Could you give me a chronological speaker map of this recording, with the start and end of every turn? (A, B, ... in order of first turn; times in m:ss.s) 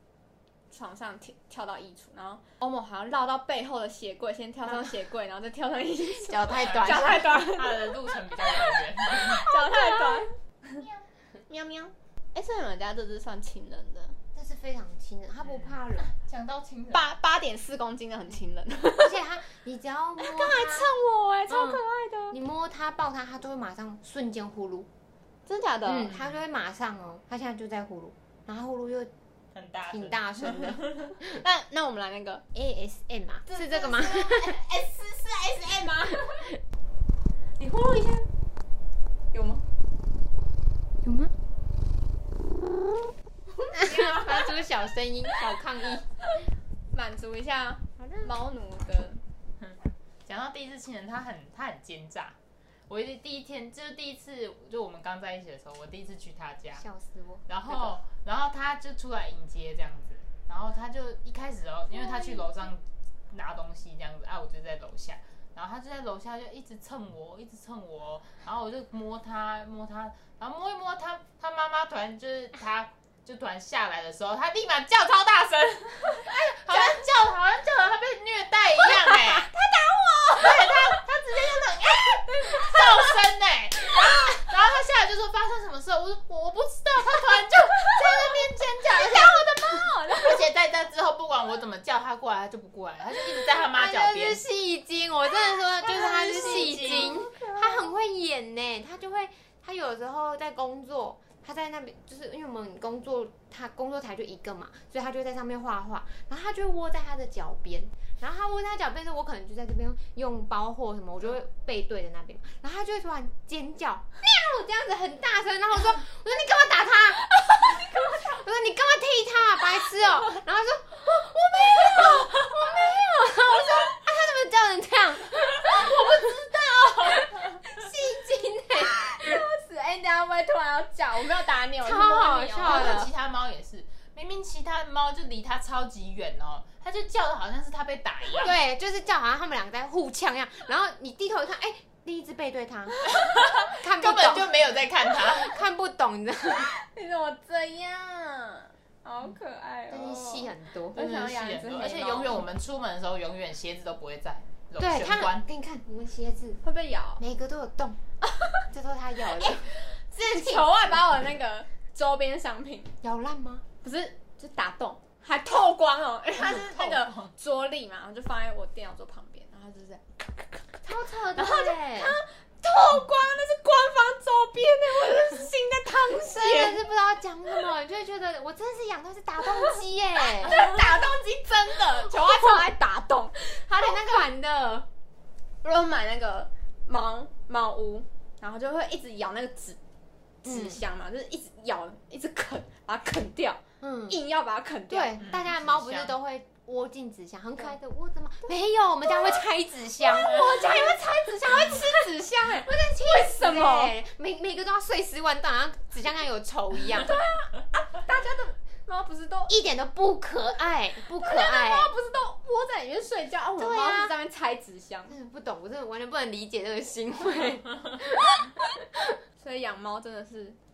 0:00.7-0:08.0 A
0:06.1-0:07.2 B
0:06.5-0:09.5 C
0:09.1-0:10.3 A
0:10.8-0:11.0 C
0:11.5-0:14.2 A
0:14.3-0:16.1 B
0:15.4-0:17.1 C
0:16.9-0:19.2 A
0:19.0-0:20.9 B
0:20.2-0:22.3 A
0:21.5-0:24.9 B
0:25.4-0:26.1 A
0:25.8-0:29.1 B
0:29.5-0:31.1 C
0:29.9-0:31.4 B
0:31.3-0:32.4 A
0:32.5-0:34.6 B
0:33.5-0:36.5 A
0:37.6-0:38.3 A
0:39.3-0:39.6 A
0:41.0-0:41.3 B
0:43.6-0:44.6 A
0:43.7-0:46.1 B
0:46.9-0:49.2 A
0:48.0-0:48.3 B
0:49.6-0:52.4 C
0:52.9-0:56.8 C
0:56.8-0:57.5 B
0:57.5-1:19.5 C
1:16.1-1:17.1 A
1:19.2-1:23.2 A
1:20.4-1:28.5 C
1:27.0-1:30.5 A
1:30.2-1:34.4 C
1:33.6-2:09.3 B
1:35.8-1:37.9 A
1:35.8-1:37.2 C
1:57.7-1:58.2 A
2:01.7-2:02.3 A
2:08.8-2:13.0 A
2:11.8-2:13.1 B
2:12.6-2:18.5 C
2:18.4-2:23.0 B
2:23.7-2:24.5 B
2:24.0-2:25.5 C
2:25.2-2:26.7 B
2:26.6-2:32.4 A
2:29.9-2:31.1 B
2:31.0-2:35.4 C
2:34.8-2:36.6 B
2:36.6-2:37.2 A
2:37.2-2:38.0 B
2:38.2-2:38.6 A
2:38.7-2:39.7 B
2:39.4-2:42.9 A
2:40.2-2:41.0 B
2:43.0-2:43.6 B
2:43.8-2:56.8 A
2:46.4-2:47.3 C
2:50.8-2:52.1 B
2:56.2-3:00.6 B
3:00.4-3:04.3 A
3:02.1-3:02.6 B
3:03.5-3:04.9 B
3:05.6-3:09.8 A
3:10.4-3:15.2 A
3:10.4-3:10.8 B
3:13.8-3:14.2 B
3:14.9-3:20.8 B
3:15.2-3:16.1 C
3:19.1-3:19.4 A
3:20.0-3:23.9 A
3:22.6-3:27.2 B
3:27.0-3:29.6 A
3:29.5-3:31.9 B
3:31.2-3:35.1 A
3:33.6-3:34.1 B
3:35.1-3:38.5 B
3:39.4-3:40.6 A